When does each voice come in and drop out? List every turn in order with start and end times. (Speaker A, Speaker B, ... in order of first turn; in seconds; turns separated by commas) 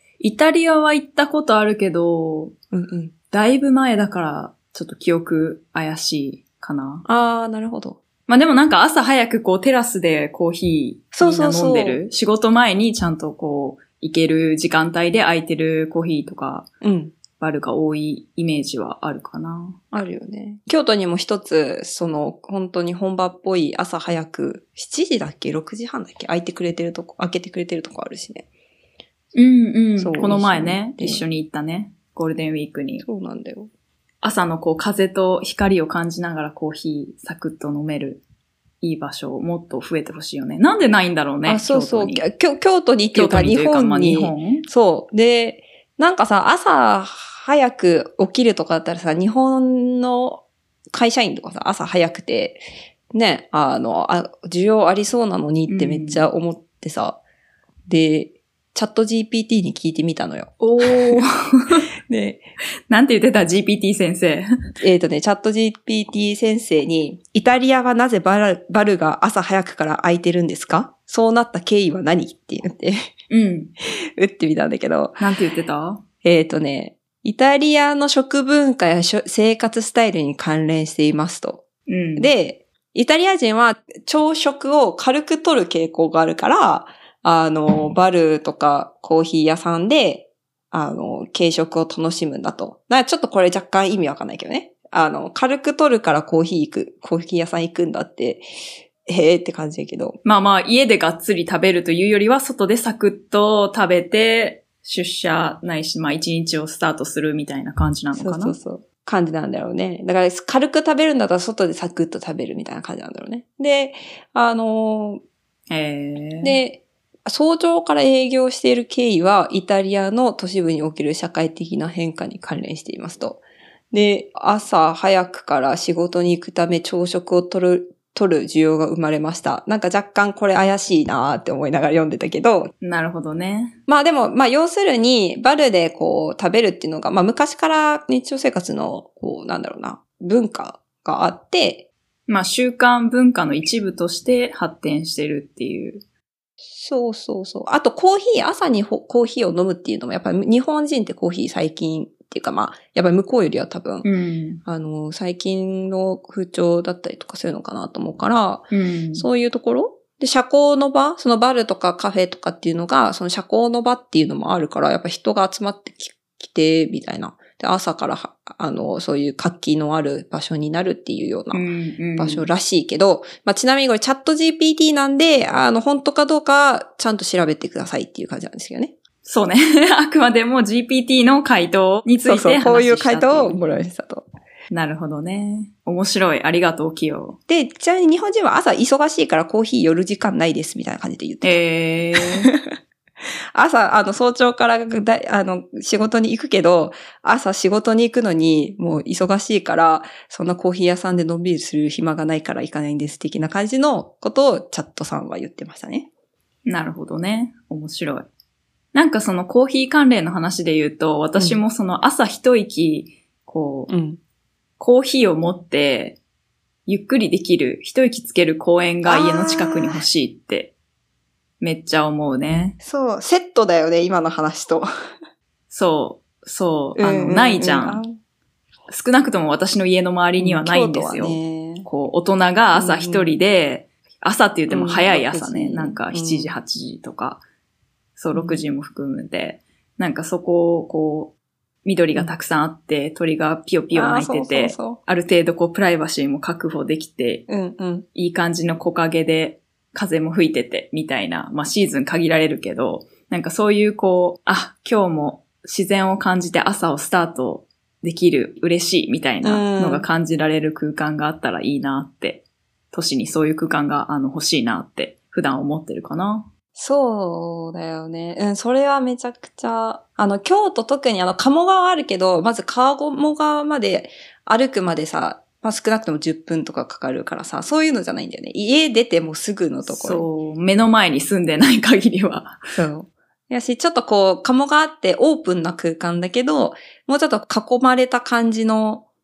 Speaker A: 0.2-2.5, Speaker B: 2.7-3.1, Speaker A: 3.3-7.0, Speaker B: 7.1-8.0, Speaker A: 8.3-16.7, Speaker B: 11.1-12.0, Speaker B: 16.8-17.1, Speaker A: 17.4-19.8, Speaker B: 19.9-28.5, Speaker A: 29.4-33.0, Speaker B: 30.0-31.2, Speaker B: 33.0-33.7, Speaker A: 34.2-38.2, Speaker A: 38.8-42.2, Speaker B: 41.5-50.4, Speaker A: 43.1-44.6, Speaker B: 50.9-57.2, Speaker A: 55.7-56.3, Speaker B: 57.9-61.2, Speaker A: 60.6-61.9, Speaker B: 62.1-62.4, Speaker A: 62.9-64.5, Speaker B: 64.8-73.1, Speaker A: 73.3-73.7, Speaker B: 74.2-75.2, Speaker A: 75.2-76.0, Speaker B: 76.2-81.6, Speaker A: 81.9-82.3, Speaker B: 82.2-98.5, Speaker B: 99.0-100.2, Speaker A: 100.2-108.6, Speaker B: 108.2-115.2, Speaker A: 115.7-116.6, Speaker B: 116.4-123.4, Speaker B: 123.9-132.7, Speaker A: 132.8-133.8, Speaker B: 133.9-141.8, Speaker A: 142.3-146.0, Speaker B: 146.7-154.1, Speaker A: 154.0-154.6, Speaker B: 154.7-171.7, Speaker A: 158.7-159.2, Speaker A: 171.5-172.5, Speaker B: 172.2-178.9, Speaker A: 179.2-183.6, Speaker B: 182.2-184.2, Speaker A: 184.7-187.4, Speaker B: 187.5-191.6, Speaker A: 191.4-192.5, Speaker B: 192.4-192.8, Speaker B: 193.5-206.1, Speaker A: 206.7-208.3, Speaker A: 208.9-213.9, Speaker B: 213.9-214.2, Speaker A: 214.8-216.2, Speaker A: 216.9-220.7, Speaker B: 219.1-220.1, Speaker A: 221.6-222.8, Speaker B: 222.8-224.9, Speaker A: 225.7-228.0, Speaker B: 227.0-228.2, Speaker A: 228.9-237.4, Speaker B: 230.4-231.9, Speaker B: 232.8-233.3, Speaker B: 234.7-236.5, Speaker A: 238.2-241.3, Speaker B: 238.3-238.6, Speaker A: 241.8-247.5, Speaker B: 243.9-245.0, Speaker B: 247.5-248.1, Speaker A: 248.1-266.5, Speaker B: 259.4-260.1, Speaker B: 266.8-280.3, Speaker A: 279.9-282.6, Speaker B: 282.7-289.1